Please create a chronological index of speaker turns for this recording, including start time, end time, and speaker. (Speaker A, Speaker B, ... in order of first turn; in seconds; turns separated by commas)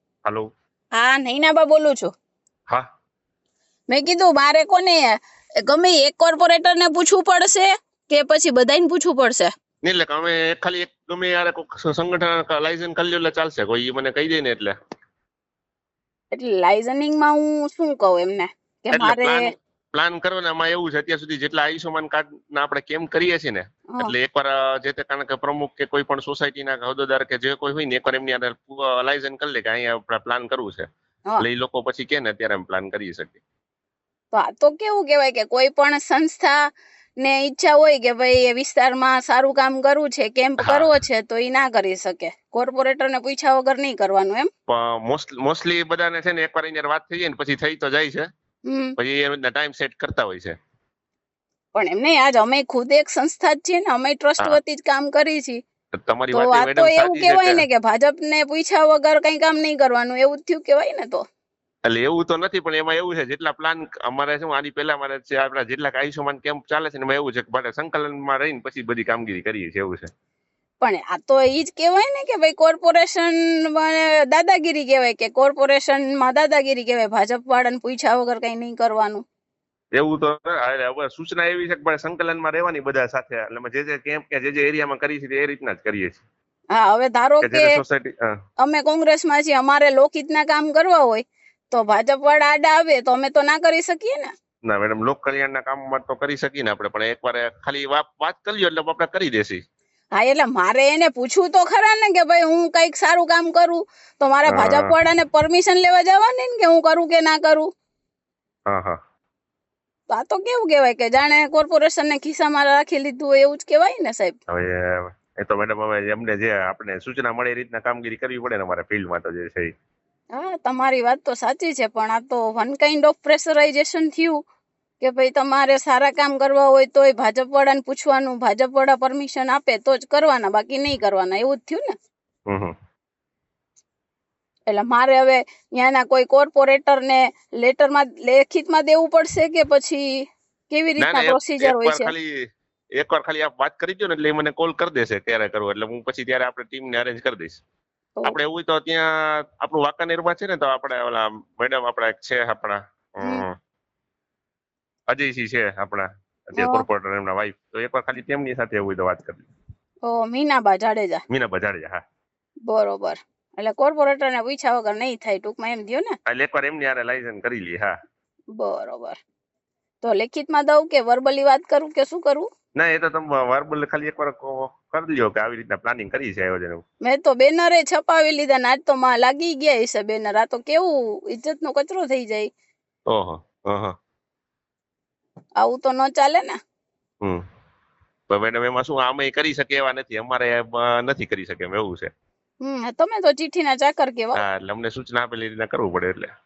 Speaker A: 0.9-2.1, Speaker A: 3.9-9.5, Speaker B: 9.8-14.7, Speaker A: 16.3-19.5, Speaker B: 18.9-30.9, Speaker B: 31.4-33.4, Speaker A: 34.3-36.6, Speaker A: 37.2-44.5, Speaker B: 40.6-40.9, Speaker B: 44.7-48.3, Speaker A: 48.7-48.9, Speaker B: 49.0-50.5, Speaker A: 51.7-55.6, Speaker B: 56.0-57.6, Speaker A: 56.3-61.2, Speaker B: 61.9-70.1, Speaker A: 70.8-79.2, Speaker B: 79.9-86.2, Speaker A: 86.7-87.8, Speaker B: 87.4-88.3, Speaker A: 88.6-94.3, Speaker B: 94.7-99.6, Speaker A: 100.2-107.7, Speaker B: 104.5-104.9, Speaker B: 108.7-109.0, Speaker A: 110.1-114.4, Speaker B: 114.5-119.7, Speaker A: 120.3-124.4, Speaker A: 125.0-131.9, Speaker B: 132.5-132.7, Speaker A: 134.7-140.1, Speaker A: 140.7-142.1, Speaker B: 141.0-142.3, Speaker B: 143.0-147.6, Speaker B: 148.2-153.5, Speaker A: 153.2-153.4, Speaker B: 155.1-159.5, Speaker A: 156.6-156.8, Speaker A: 160.1-161.2, Speaker B: 161.3-162.0, Speaker A: 162.7-166.1, Speaker B: 166.2-167.9, Speaker A: 168.5-169.2, Speaker A: 170.0-172.5, Speaker B: 172.8-176.8, Speaker A: 177.0-182.5, Speaker B: 183.1-183.9, Speaker A: 185.6-186.6, Speaker B: 188.3-192.1, Speaker A: 192.6-194.4, Speaker B: 194.3-196.3